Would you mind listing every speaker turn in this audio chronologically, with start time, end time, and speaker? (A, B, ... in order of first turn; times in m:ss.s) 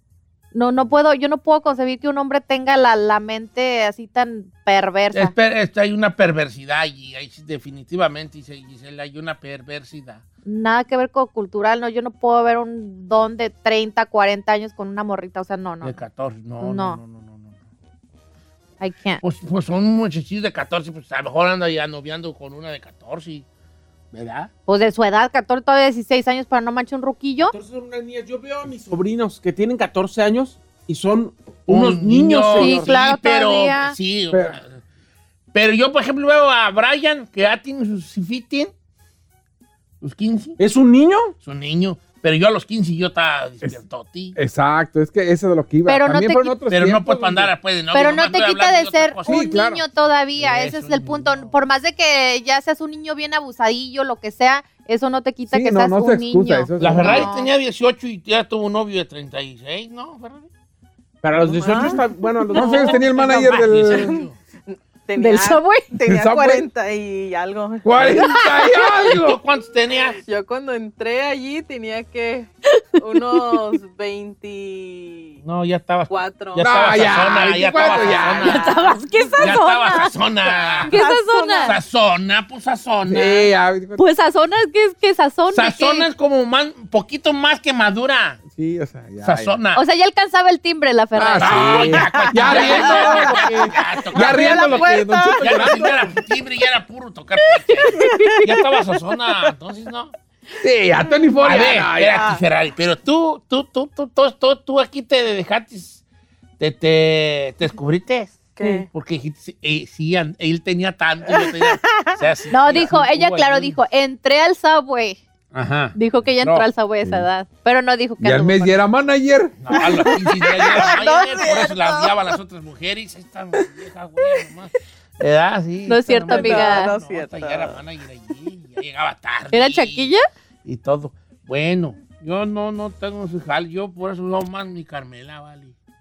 0:00.5-0:05.3 A
0:05.1-0:10.2 B
0:10.4-0:16.0 A
0:15.8-0:17.6 B
0:16.6-0:17.0 A
0:18.8-0:19.2 A
0:19.2-0:23.4 B
0:24.1-0:24.5 B
0:24.7-0:27.5 A
0:27.5-0:32.9 C
0:31.7-0:34.8 B
0:32.6-0:33.9 A
0:34.3-0:34.6 D
0:35.5-0:38.7 B
0:40.0-0:40.6 B
0:40.6-0:41.3 C
0:41.4-0:44.4 B
0:44.4-0:47.5 D
0:45.8-0:46.6 A
0:46.7-0:49.6 B
0:47.9-0:57.5 A
0:49.2-0:49.8 D
0:50.4-0:51.5 B
0:55.5-0:57.3 D
0:56.8-1:00.5 B
1:01.2-1:03.0 C
1:01.5-1:02.0 E
1:01.7-1:02.0 A
1:02.5-1:04.2 D
1:03.0-1:04.4 B
1:04.7-1:08.8 E
1:05.2-1:05.9 A
1:06.0-1:06.7 D
1:07.8-1:09.4 D
1:08.0-1:08.4 B
1:08.9-1:10.2 B
1:10.2-1:15.4 E
1:12.7-1:13.6 A
1:15.4-1:18.8 B
1:16.1-1:19.8 E
1:16.6-1:18.6 D
1:18.2-1:20.1 A
1:19.4-1:21.0 B
1:20.4-1:21.8 E
1:20.8-1:21.8 A
1:21.6-1:23.4 B
1:23.1-1:24.0 D
1:24.0-1:26.1 A
1:25.5-1:28.4 B
1:28.5-1:29.6 D
1:29.2-1:29.8 B
1:29.7-1:32.7 A
1:31.1-1:36.0 D
1:31.4-1:40.1 B
1:32.1-1:36.0 E
1:37.8-1:38.4 A
1:37.9-1:38.5 E
1:40.6-1:42.4 D
1:41.4-1:46.0 B
1:42.1-1:42.4 E
1:46.6-1:53.8 B
1:48.5-1:48.9 E
1:51.4-1:52.1 E
1:52.5-1:55.2 A
1:55.5-1:56.7 B
1:55.9-1:58.8 A
1:58.2-2:00.0 D
1:59.6-2:10.1 B
1:59.8-2:02.2 E
2:05.9-2:07.0 A
2:06.3-2:07.8 E
2:09.5-2:10.2 A
2:10.6-2:15.7 B